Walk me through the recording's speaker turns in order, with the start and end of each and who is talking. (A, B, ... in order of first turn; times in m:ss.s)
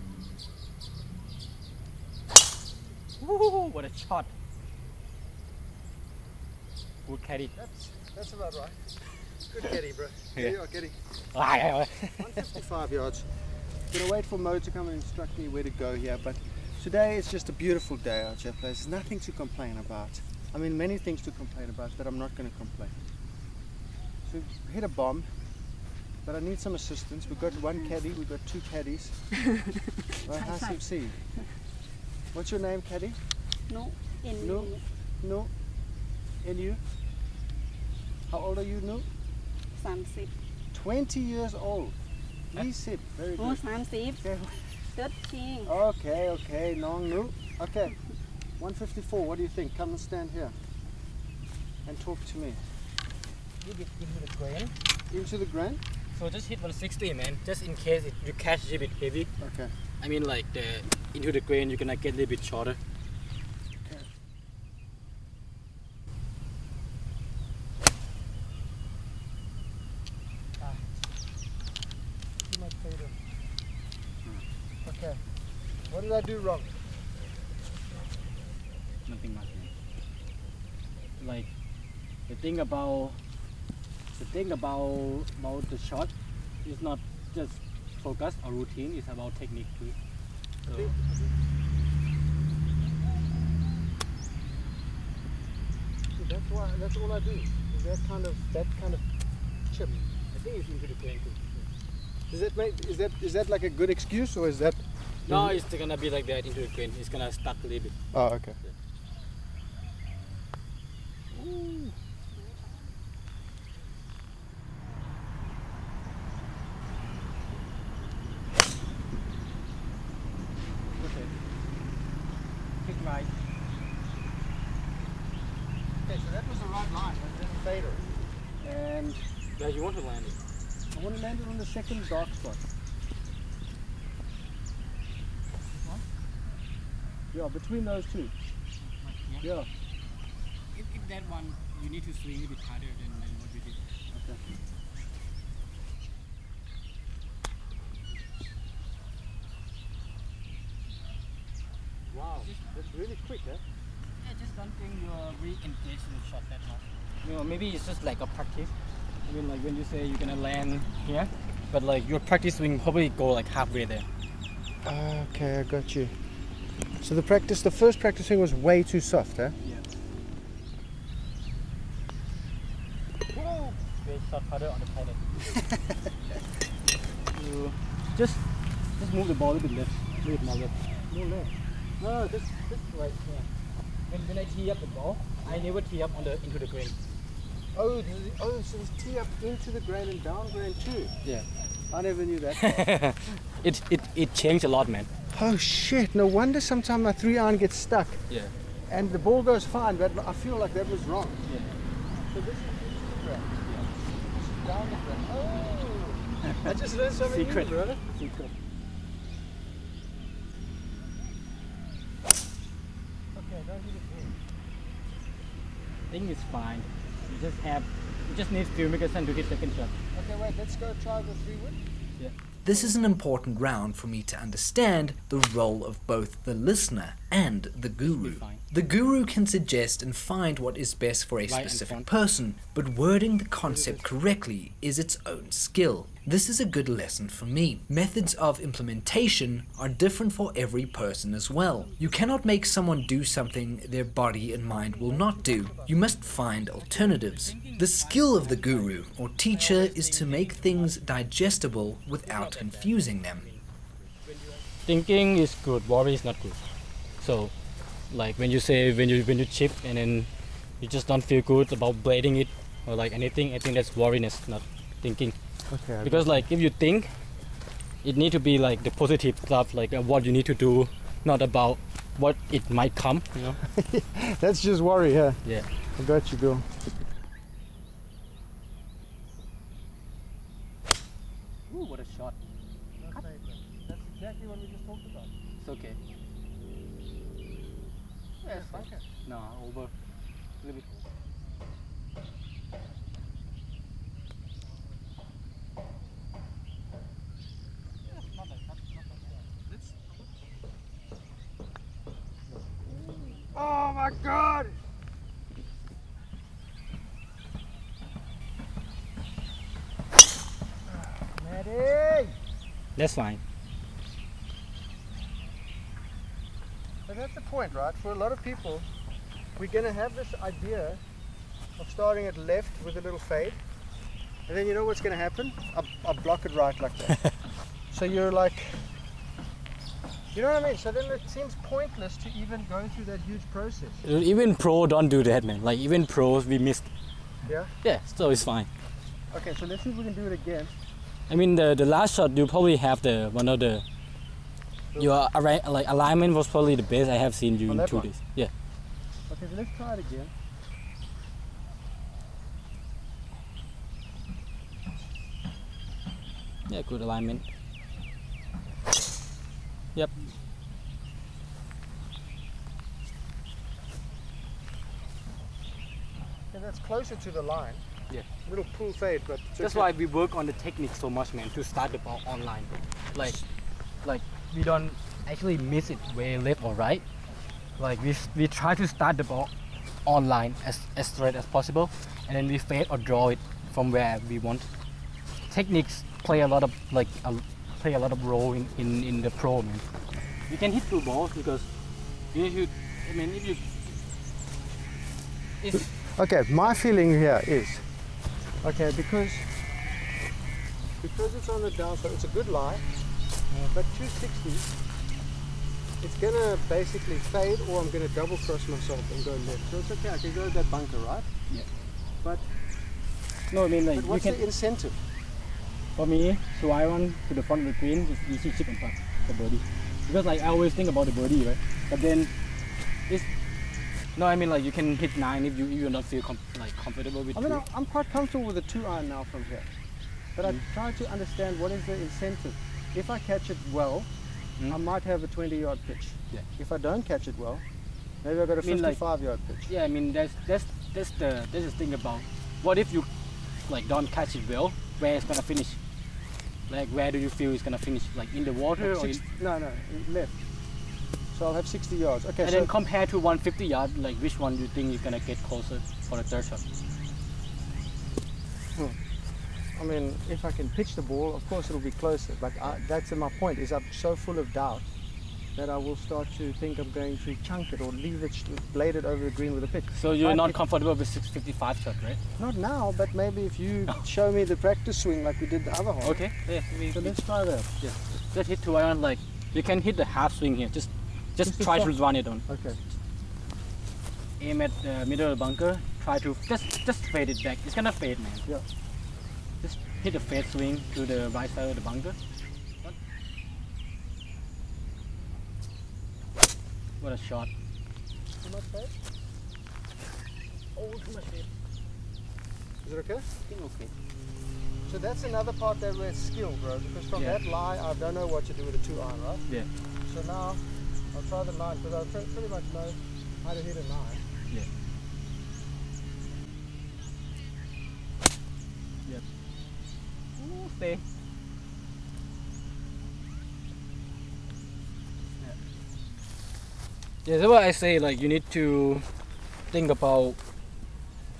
0:03.2-0:04.3 A
0:07.1-0:07.5 A
0:07.5-0:08.8 B
0:09.5-0:11.0 B
0:11.3-0:12.5 A
0:12.2-0:13.3 B
0:13.9-0:22.9 B
0:24.2-0:25.3 B
0:26.2-0:29.2 B
0:30.2-0:31.2 B
0:30.3-0:30.8 C
0:32.3-0:33.2 B
0:33.7-0:34.8 C
0:34.4-0:35.5 B
0:36.4-0:36.8 B
0:38.3-0:39.1 B
0:39.8-0:40.3 C
0:40.7-0:42.0 B
0:42.5-0:44.8 B
0:43.4-0:44.2 C
0:44.9-0:45.7 C
0:45.6-0:48.0 B
0:48.6-0:50.6 B
0:51.8-0:52.6 B
0:53.6-0:54.7 A
0:55.1-0:55.8 B
0:56.1-0:59.3 A
0:59.4-0:59.7 B
1:00.0-1:02.8 A
1:10.6-1:10.9 B
1:12.5-1:13.2 B
1:14.8-1:15.2 B
1:15.9-1:16.7 B
1:19.1-1:19.7 A
1:21.2-1:21.5 A
1:22.3-1:23.2 A
1:24.2-1:26.1 A
1:26.6-1:30.0 A
1:30.6-1:30.9 A
1:30.7-1:31.4 B
1:36.2-1:39.0 B
1:39.7-1:40.1 B
1:40.3-1:41.7 A
1:42.3-1:45.6 B
1:45.3-1:47.9 A
1:48.1-1:48.6 B
1:51.3-1:51.9 A
2:01.0-2:01.3 A
2:02.8-2:03.3 A
2:06.0-2:08.1 B
2:08.6-2:10.4 A
2:10.9-2:12.6 B
2:15.7-2:16.0 A
2:17.3-2:18.3 B
2:18.8-2:19.5 A
2:19.4-2:19.7 B
2:20.7-2:23.8 A
2:24.1-2:24.4 B
2:32.1-2:33.6 B
2:32.4-2:32.7 A
2:34.2-2:38.7 A
2:39.3-2:44.1 A
2:44.8-2:46.1 B
2:47.0-2:49.6 B
2:53.3-2:53.8 B
2:54.0-2:55.4 A
2:57.3-2:58.4 A
2:59.0-3:00.8 A
3:01.1-3:02.6 B
3:02.5-3:03.5 A
3:04.1-3:07.0 A
3:07.7-3:11.1 B
3:11.9-3:12.9 B
3:12.5-3:15.1 A
3:15.3-3:18.2 B
3:18.9-3:21.4 B
3:21.5-3:21.8 A
3:22.3-3:23.5 B
3:24.3-3:28.0 B
3:27.2-3:28.5 A
3:33.3-3:34.4 B
3:36.1-3:39.9 A
3:40.1-3:41.8 B
3:42.6-4:13.5 D
3:48.0-3:48.6 A
3:51.5-3:52.1 A
3:53.6-3:54.0 B
4:04.6-4:06.2 B
4:06.8-4:11.1 A
4:12.2-4:16.6 A
4:17.2-4:17.5 A
4:18.1-4:25.4 A
4:25.7-4:26.4 B
4:26.0-4:27.1 A
4:28.0-4:33.6 A
4:33.6-4:35.4 B
4:36.0-4:36.7 B
4:41.7-4:42.4 A
4:43.0-4:45.3 B
4:45.6-4:46.0 A
4:48.4-4:49.0 B
4:48.4-4:49.9 A
4:50.6-4:51.1 A
4:58.1-4:59.6 A
5:02.9-5:04.8 B
5:10.9-5:12.4 B
5:13.0-5:13.4 A
5:17.1-5:18.9 B
5:19.6-5:21.0 B
5:21.8-5:23.6 B
5:24.5-5:27.3 B
5:27.9-5:28.9 B
5:30.3-5:34.0 B
5:34.0-5:36.9 A
5:37.4-5:37.7 B
5:37.8-5:38.7 A
5:39.3-5:40.7 B
5:41.3-5:43.8 A
5:44.9-5:45.2 B
5:45.0-5:48.5 A
5:47.7-5:48.1 B
5:49.3-5:50.3 B
5:56.7-5:57.4 A
6:06.5-6:07.8 B
6:08.5-6:09.9 B
6:09.6-6:13.4 A
6:14.0-6:17.0 A
6:17.8-6:19.5 A
6:20.1-6:24.7 A
6:25.5-6:29.8 A
6:30.5-6:31.7 A
6:32.3-6:33.8 A
6:35.6-6:36.0 A
6:36.0-6:37.8 B
6:38.6-6:39.5 B
6:41.0-6:42.8 B
6:43.7-6:44.7 B
6:46.0-6:51.3 B
6:52.2-6:52.5 B
6:53.5-6:54.4 A
6:53.9-6:55.0 B
6:56.0-7:02.3 A
7:04.2-7:07.6 A
7:07.3-7:09.7 B
7:10.4-7:14.1 B
7:14.7-7:17.6 B
7:18.2-7:19.7 B
7:18.6-7:19.0 A
7:19.7-7:23.1 A
7:23.6-7:25.8 A
7:26.7-7:29.2 A
7:28.8-7:30.3 B
7:31.3-7:32.7 B
7:32.4-7:36.6 A
7:39.8-7:44.8 B
7:45.6-7:50.6 B
7:49.9-7:52.2 A
7:52.4-7:56.2 B
7:56.0-7:57.2 A
7:56.9-7:57.7 B
7:57.8-8:02.4 A
8:01.4-8:02.8 B
8:04.4-8:08.4 A
8:09.6-8:12.2 A
8:17.0-8:17.5 A
8:18.4-8:19.0 B
8:20.8-8:21.5 A
8:22.8-8:23.3 B
8:23.5-8:23.9 A
8:24.9-8:29.4 B
8:27.1-8:27.4 A
8:30.1-8:34.2 B
8:40.4-8:41.0 A
8:47.2-8:49.0 A
8:49.7-8:50.4 A